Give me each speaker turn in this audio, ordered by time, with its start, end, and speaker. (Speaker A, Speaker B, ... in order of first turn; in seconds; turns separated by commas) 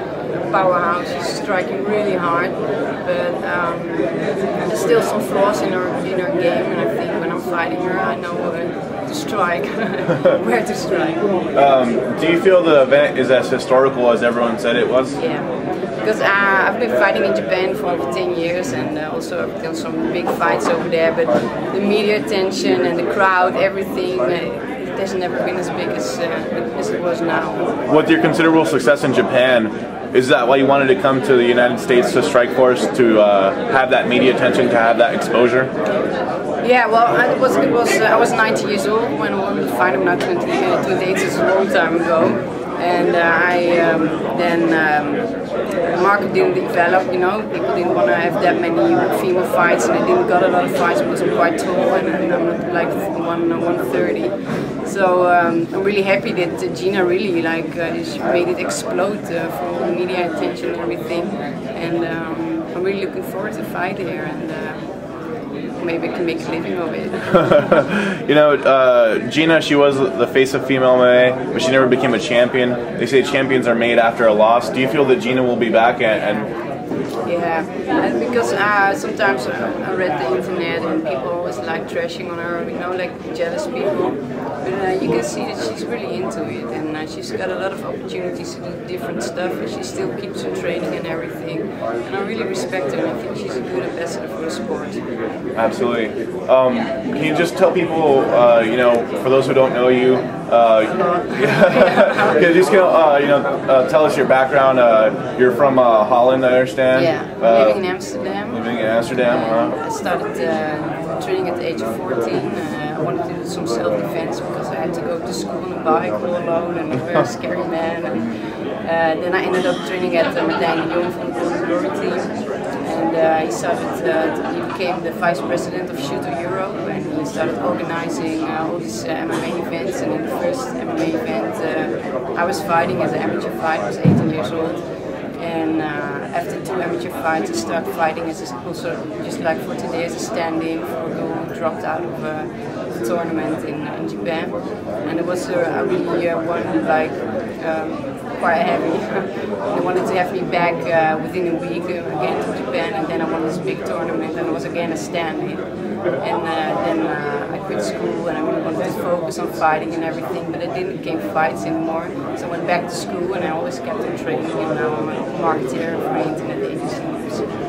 Speaker A: 0.4-11.3, Speaker B: 11.5-15.2, Speaker A: 15.2-15.5, Speaker A: 16.0-27.7, Speaker B: 27.9-35.7, Speaker A: 36.6-64.8, Speaker A: 65.8-67.8, Speaker B: 67.3-76.5, Speaker A: 77.2-95.0, Speaker B: 95.6-107.8, Speaker A: 100.9-102.5, Speaker A: 106.9-118.3, Speaker B: 108.5-109.8, Speaker A: 118.8-134.8, Speaker A: 135.4-155.6, Speaker A: 156.2-167.4